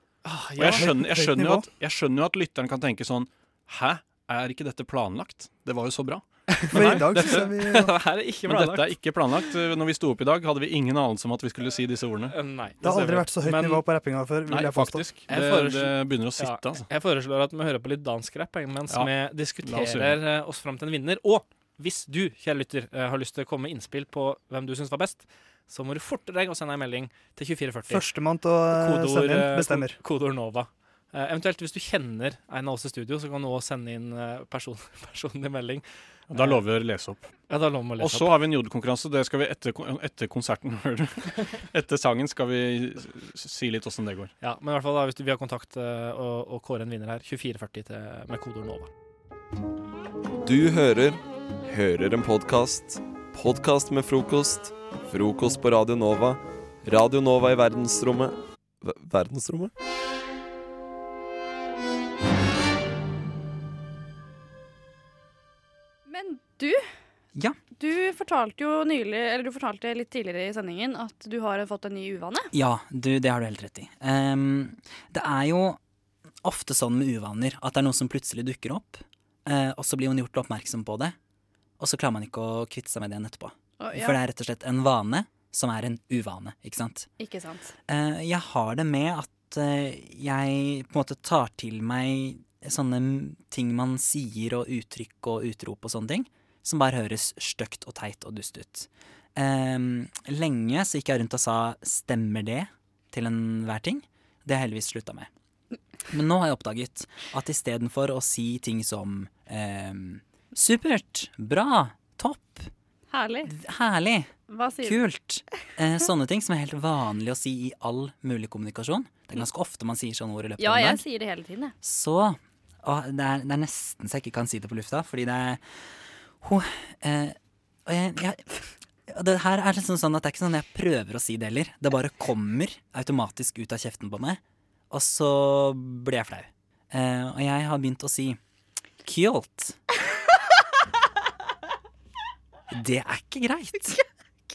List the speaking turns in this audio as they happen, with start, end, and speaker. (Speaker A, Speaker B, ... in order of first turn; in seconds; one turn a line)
Speaker A: 0.2-0.9
Speaker B: 0.6-7.5
Speaker C: 0.7-1.7
Speaker A: 6.5-9.0
Speaker C: 6.7-7.9
Speaker B: 8.5-12.3
Speaker A: 12.3-13.9
Speaker C: 12.8-15.2
Speaker B: 14.5-16.9
Speaker A: 15.3-28.1
Speaker B: 18.9-20.2
Speaker C: 27.9-30.0
Speaker A: 28.7-36.6
Speaker B: 36.3-37.3
Speaker A: 37.5-38.4
Speaker B: 38.0-44.3
Speaker A: 44.4-48.9
Speaker D: 50.4-59.7
Speaker E: 66.1-66.8
Speaker E: 67.8-72.5
Speaker F: 72.5-75.8
Speaker F: 76.4-81.2
Speaker F: 81.8-87.1
Speaker E: 83.8-84.2
Speaker E: 87.2-87.7
Speaker F: 87.9-105.3
Speaker F: 106.1-112.7
Speaker E: 113.1-113.5
Speaker F: 113.5-121.0
Speaker E: 114.5-115.0
Speaker E: 120.6-121.7
Speaker F: 121.8-125.6
Speaker F: 126.4-128.4
Speaker F: 129.1-134.4
Speaker F: 134.9-138.4
Speaker F: 139.0-139.8
Speaker F: 142.7-144.0